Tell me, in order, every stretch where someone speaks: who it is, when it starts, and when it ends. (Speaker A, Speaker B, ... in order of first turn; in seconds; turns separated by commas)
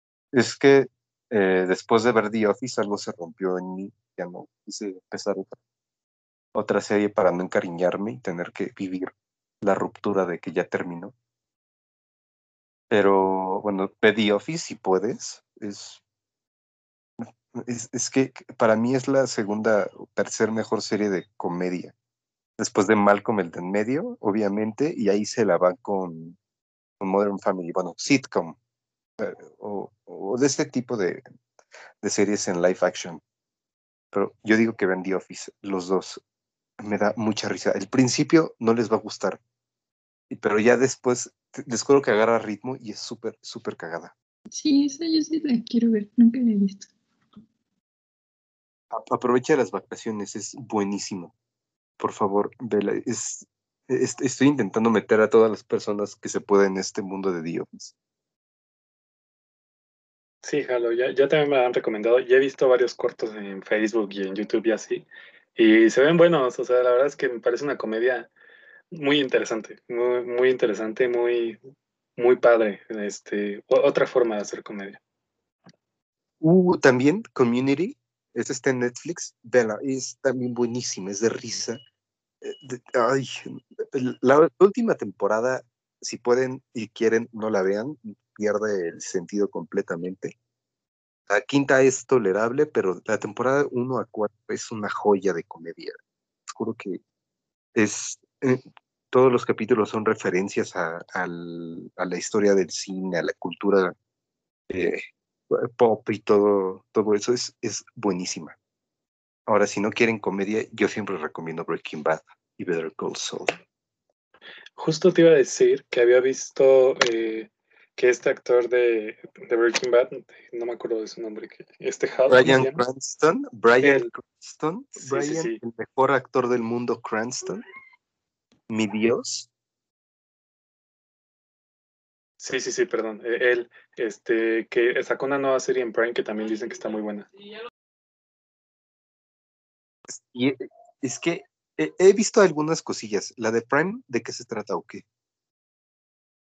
Speaker A: 0.3-5.6, Speaker A: 6.5-11.1, Speaker A: 12.9-16.0, Speaker A: 17.2-21.9, Speaker A: 22.6-26.4, Speaker A: 27.0-28.6, Speaker A: 29.2-31.2, Speaker A: 32.0-33.2, Speaker A: 34.1-36.2, Speaker A: 36.8-39.4, Speaker A: 40.3-44.1, Speaker B: 44.5-46.9, Speaker A: 48.9-51.3, Speaker A: 52.0-57.9, Speaker C: 60.4-68.3, Speaker C: 68.9-71.6, Speaker C: 72.2-75.0, Speaker A: 76.4-81.8, Speaker A: 82.4-90.3, Speaker A: 91.3-97.0, Speaker A: 97.8-104.0, Speaker A: 104.7-108.6, Speaker A: 109.5-113.5, Speaker C: 114.8-122.8, Speaker A: 122.3-127.6, Speaker C: 123.8-124.1, Speaker C: 125.0-125.6, Speaker A: 128.7-129.5, Speaker C: 132.4-137.3, Speaker A: 140.1-145.0